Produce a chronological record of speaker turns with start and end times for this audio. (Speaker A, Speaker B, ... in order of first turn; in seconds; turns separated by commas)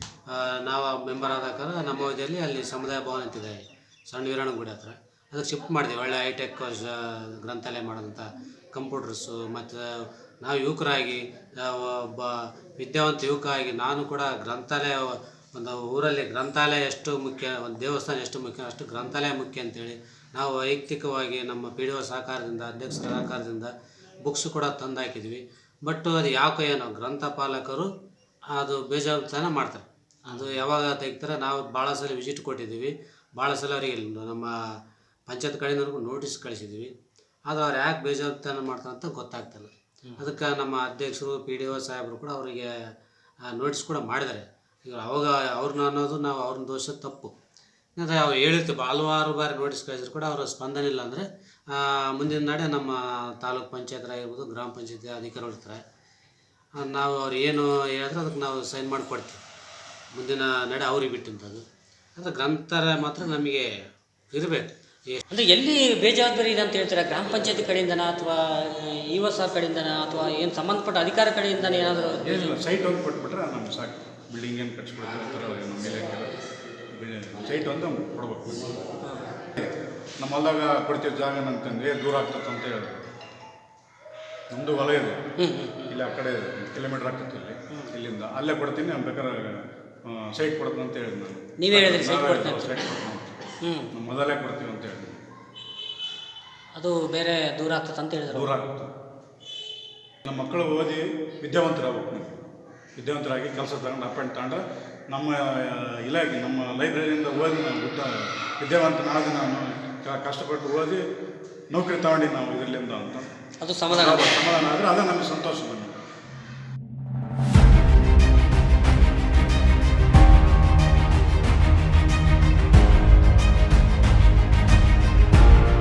Speaker A: 0.3-9.8, Speaker A: 10.4-23.7, Speaker A: 24.2-27.9, Speaker A: 28.5-34.5, Speaker B: 30.3-30.6, Speaker A: 35.3-36.9, Speaker A: 37.5-42.7, Speaker B: 40.0-40.3, Speaker A: 43.5-47.3, Speaker A: 48.0-55.8, Speaker A: 56.8-59.4, Speaker A: 60.1-61.6, Speaker A: 62.2-63.7, Speaker A: 64.3-65.2, Speaker B: 65.3-72.5, Speaker C: 72.2-76.3, Speaker C: 76.9-78.8, Speaker B: 79.0-79.3, Speaker C: 79.6-83.1, Speaker C: 84.5-85.2, Speaker B: 85.4-86.0, Speaker C: 85.9-95.2, Speaker B: 91.6-92.8, Speaker B: 93.6-93.9, Speaker B: 96.8-98.5, Speaker C: 98.3-98.9, Speaker C: 100.2-102.3, Speaker C: 103.0-111.0, Speaker C: 111.7-113.3, Speaker B: 113.6-114.4, Speaker C: 113.9-116.0